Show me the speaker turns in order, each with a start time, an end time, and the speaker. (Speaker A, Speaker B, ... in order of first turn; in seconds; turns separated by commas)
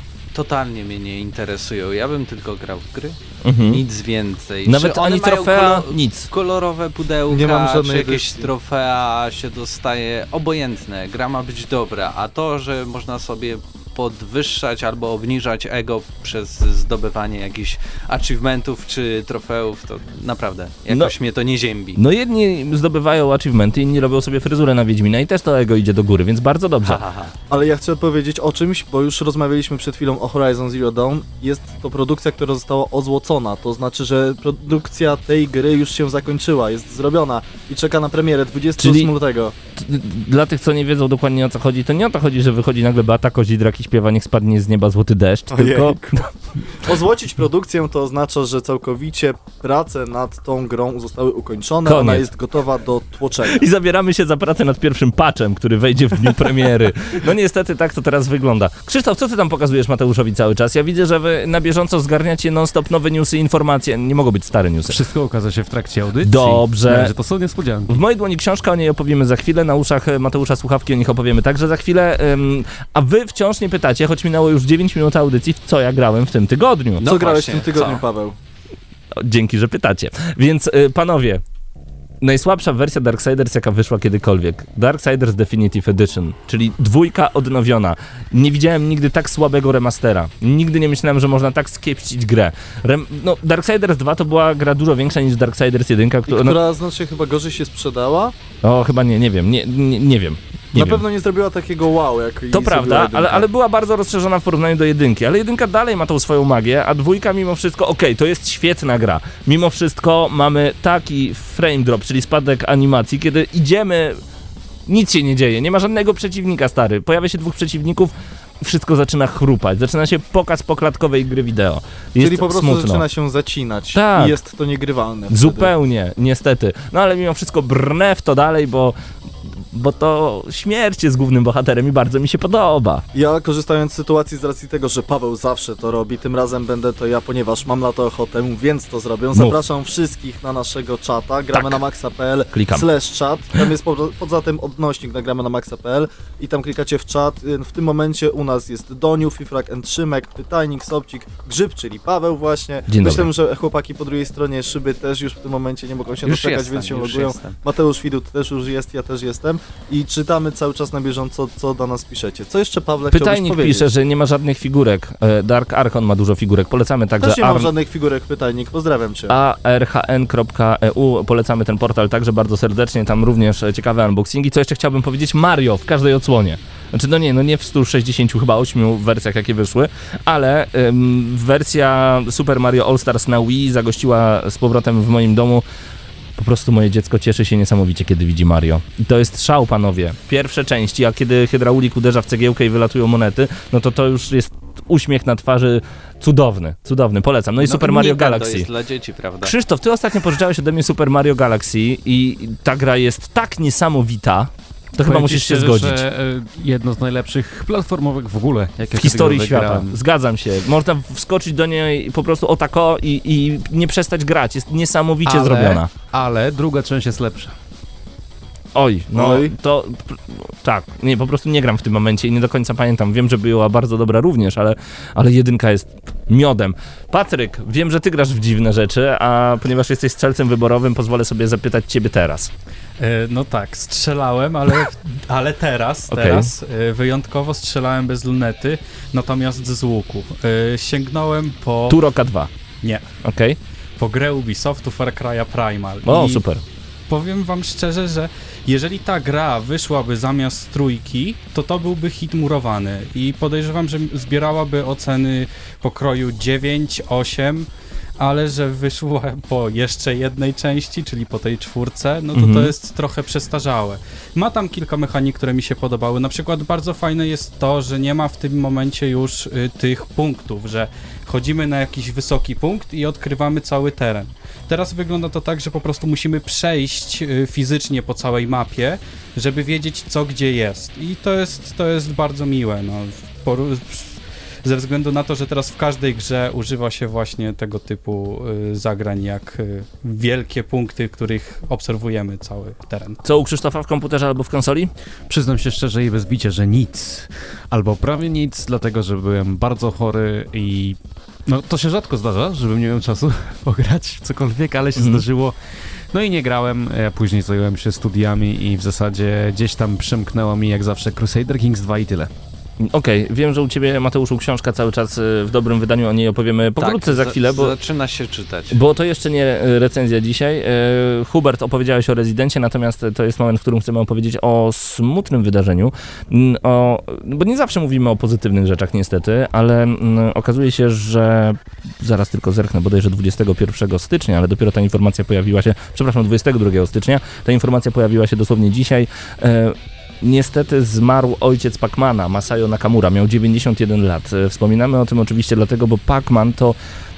Speaker A: 0.3-22.0, Speaker B: 3.4-3.8, Speaker B: 4.6-6.3, Speaker C: 7.3-8.5, Speaker B: 21.9-27.0, Speaker A: 26.8-27.3, Speaker C: 27.5-39.5, Speaker B: 38.8-39.1, Speaker B: 39.8-46.3, Speaker C: 45.5-46.2, Speaker C: 46.7-53.6, Speaker B: 51.8-52.3, Speaker B: 53.4-65.0, Speaker D: 64.9-68.0, Speaker B: 66.2-67.1, Speaker B: 67.9-77.4, Speaker A: 77.0-78.0, Speaker C: 77.0-78.3, Speaker B: 79.2-81.4, Speaker B: 82.2-96.6, Speaker C: 96.3-98.3, Speaker B: 98.6-101.0, Speaker C: 100.7-103.5, Speaker B: 102.5-114.2, Speaker B: 114.9-123.0, Speaker C: 122.2-125.7, Speaker B: 123.9-124.4, Speaker B: 125.3-133.0, Speaker C: 133.1-163.9, Speaker B: 139.3-139.6, Speaker B: 141.5-141.8, Speaker B: 142.5-142.9, Speaker B: 152.9-153.3, Speaker A: 156.2-157.6, Speaker B: 163.1-167.7, Speaker C: 167.2-169.3, Speaker B: 169.3-185.6, Speaker B: 186.3-198.7, Speaker A: 197.6-199.5, Speaker B: 199.4-206.0, Speaker D: 205.0-210.0, Speaker B: 208.9-215.9, Speaker D: 215.2-217.5, Speaker B: 218.7-232.5, Speaker C: 219.1-219.5, Speaker E: 233.0-242.0, Speaker B: 236.1-236.5, Speaker B: 241.9-242.5, Speaker B: 243.2-243.6, Speaker E: 244.0-246.4, Speaker B: 246.0-246.6, Speaker E: 247.1-257.7, Speaker E: 258.2-293.2, Speaker B: 262.3-262.7, Speaker B: 293.2-294.9, Speaker D: 295.3-305.5, Speaker B: 304.9-305.2, Speaker D: 306.1-312.3, Speaker B: 312.8-317.7, Speaker A: 316.8-318.8, Speaker B: 318.7-346.8